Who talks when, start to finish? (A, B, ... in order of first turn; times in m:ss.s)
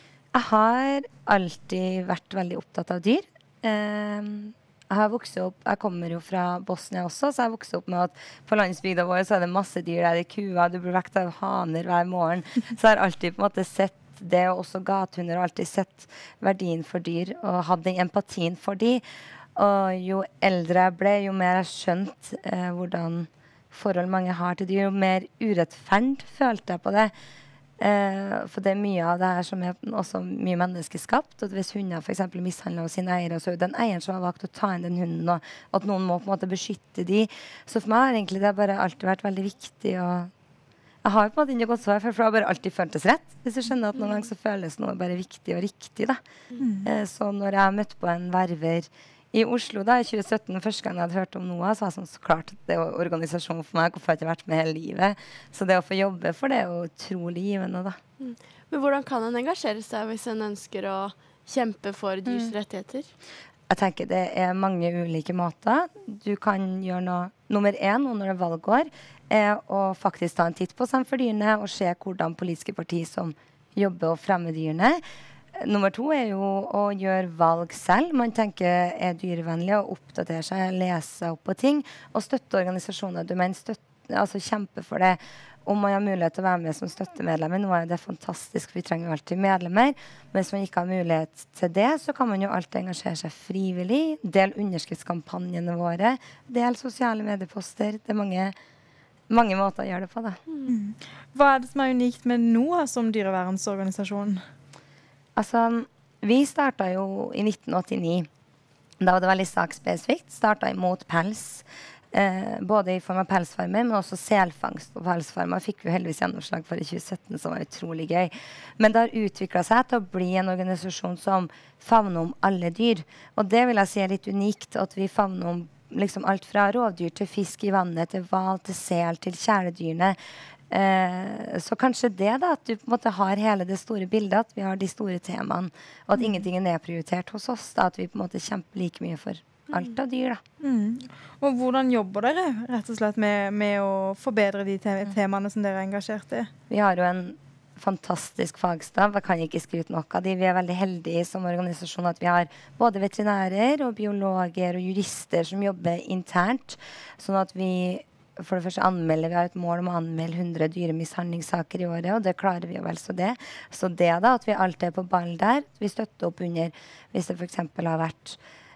0:00.3-0:19.0 A
0:19.6-0:27.1 A
0:27.8-0:40.3 A
0:41.0-0:46.2 A
0:46.6-0:46.9 B
0:46.8-0:58.0 A
0:58.2-1:03.1 C
1:02.3-1:02.5 A
1:03.7-1:15.0 A
1:15.6-1:38.5 A
1:39.3-1:40.4 A
1:40.7-1:44.4 B
1:45.4-1:48.3 A
1:49.0-2:10.2 A
2:10.7-2:20.4 A
2:20.6-2:26.5 B
2:26.7-2:48.4 A